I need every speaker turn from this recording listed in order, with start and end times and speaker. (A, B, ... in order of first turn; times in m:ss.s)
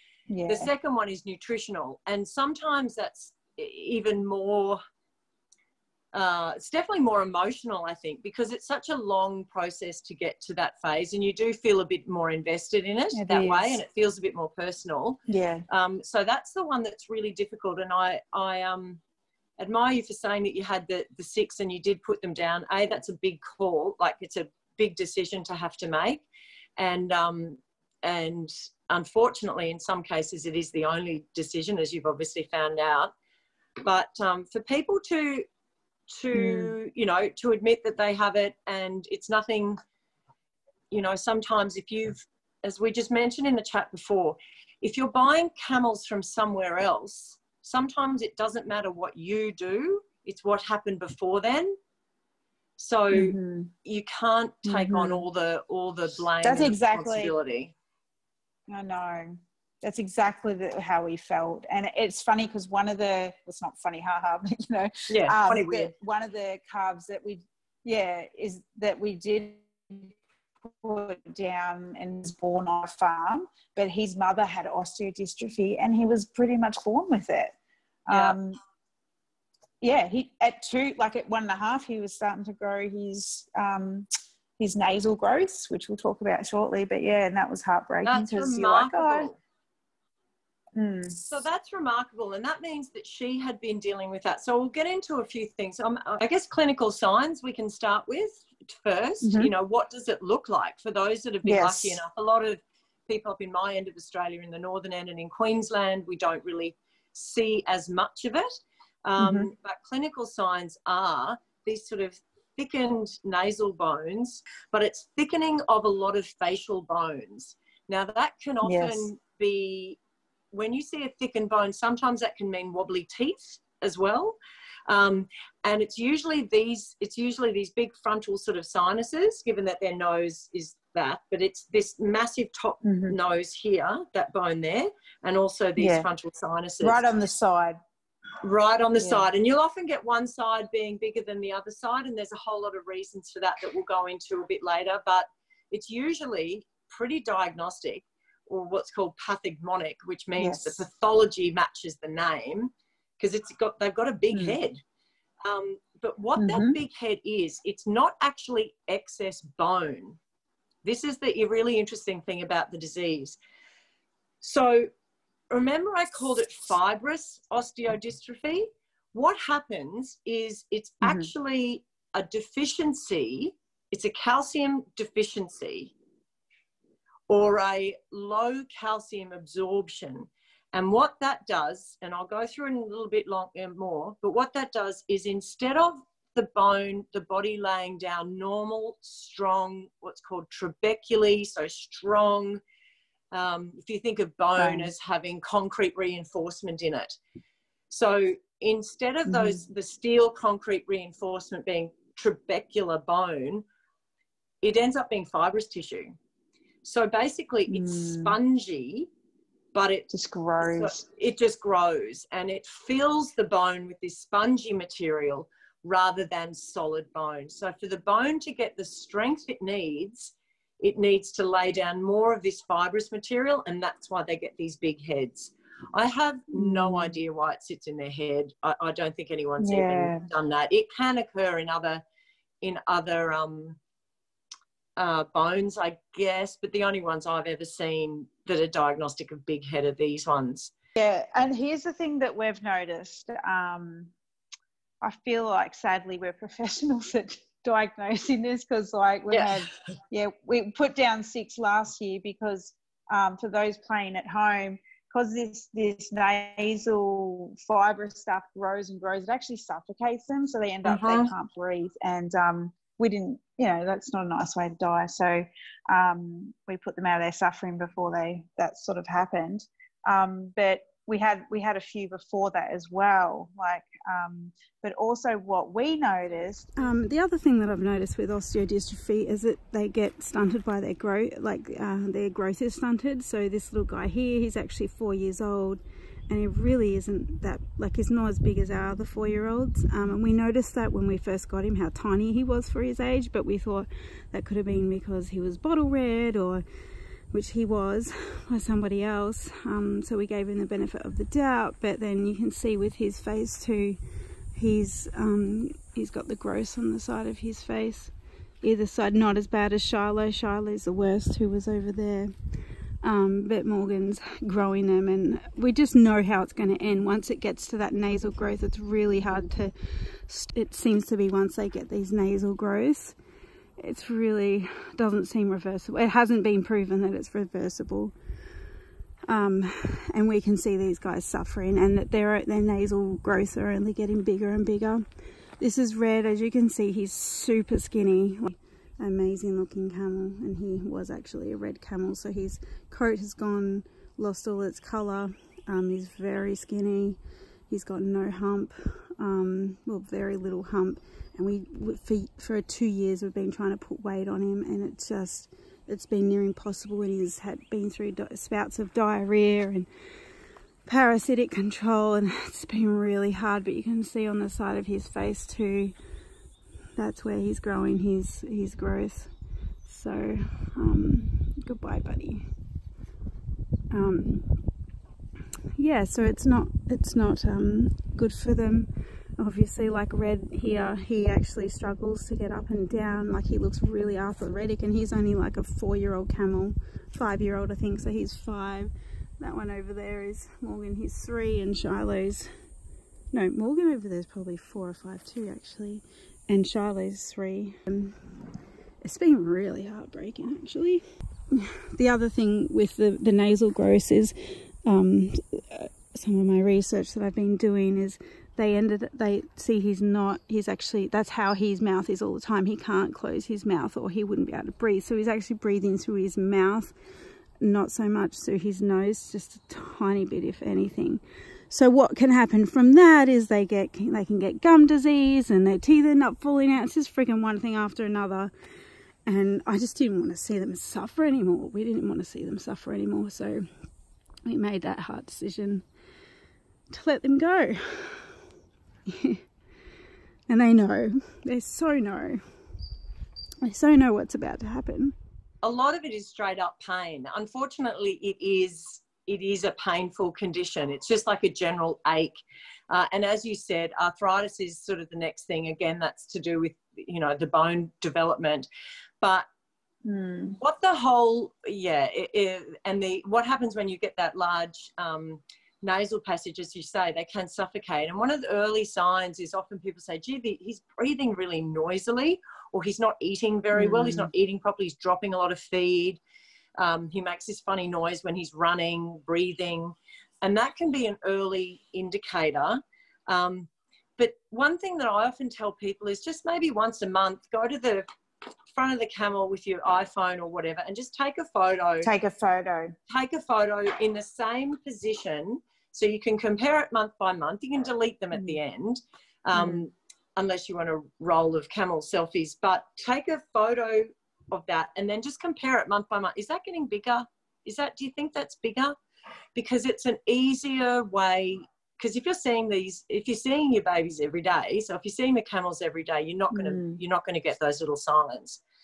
0:00.3-0:00.7 A
0:00.5-0:04.8 B
0:06.1-0:19.0 B
0:13.1-0:13.8 A
0:15.3-0:15.6 A
0:19.6-0:26.2 B
0:26.8-0:33.1 B
0:33.8-0:35.4 B
0:36.1-0:39.8 B
0:36.3-0:36.7 A
0:40.9-0:51.8 B
0:52.8-0:57.7 B
0:53.1-0:53.7 A
0:54.6-0:55.2 A
0:56.4-0:57.3 A
0:58.7-1:17.6 A
1:05.1-1:05.9 B
1:18.1-1:18.6 A
1:18.1-1:18.4 B
1:19.8-1:24.1 A
1:24.6-1:29.3 A
1:28.0-1:29.4 B
1:30.7-1:31.4 A
1:31.1-2:00.0 B
1:39.2-1:39.5 A
1:41.4-1:42.0 A
1:49.2-1:49.5 A
1:58.6-1:59.1 A
2:00.5-2:04.4 B
2:04.9-2:17.1 B
2:12.8-2:13.2 A
2:15.8-2:16.1 A
2:16.8-2:17.8 A
2:18.4-2:34.8 B
2:19.0-2:19.3 A
2:30.4-2:30.8 A
2:34.3-2:34.6 A
2:35.4-2:40.2 B
2:36.4-2:36.8 A
2:40.8-2:43.4 B
2:44.4-2:44.9 B
2:45.5-2:55.9 B
2:51.0-2:51.3 A
2:57.3-3:12.6 B
3:13.3-3:17.2 B
3:14.6-3:14.9 A
3:17.9-3:23.6 B
3:19.2-3:19.6 A
3:24.6-3:26.2 B
3:26.8-3:29.1 B
3:27.7-3:28.4 A
3:29.7-3:30.1 B
3:30.1-3:31.0 A
3:30.6-3:52.0 B
3:46.5-3:47.2 A
3:49.6-3:50.3 A
3:52.6-3:53.8 B
3:55.0-4:00.7 B
4:01.0-4:04.1 A
4:05.0-4:36.8 A
4:09.3-4:09.6 B
4:20.8-4:21.3 B
4:36.8-4:56.6 C
4:57.3-5:04.0 C
5:04.5-5:12.3 C
5:13.0-5:23.2 C
5:23.8-5:28.1 C
5:29.2-5:59.9 C
6:00.8-6:05.9 C
6:07.0-6:09.3 C
6:09.8-6:12.4 C
6:13.9-6:14.6 C
6:15.8-6:32.5 C
6:33.3-6:38.3 C
6:39.0-6:56.9 C
6:57.6-7:08.5 C
7:09.2-7:13.6 C
7:14.4-7:15.8 C
7:16.9-7:18.4 C
7:19.1-7:19.4 C
7:20.5-7:22.4 C
7:23.6-7:25.1 C
7:25.6-7:32.3 B
7:32.9-7:38.7 B
7:39.2-7:39.4 B
7:40.0-7:40.6 A
7:40.6-7:56.2 B
7:53.7-7:54.3 A
7:56.8-8:08.0 B
8:08.7-8:12.1 B
8:12.0-8:12.9 A
8:13.1-8:29.0 B
8:19.5-8:19.8 A
8:29.5-8:38.6 B
8:36.5-8:37.0 A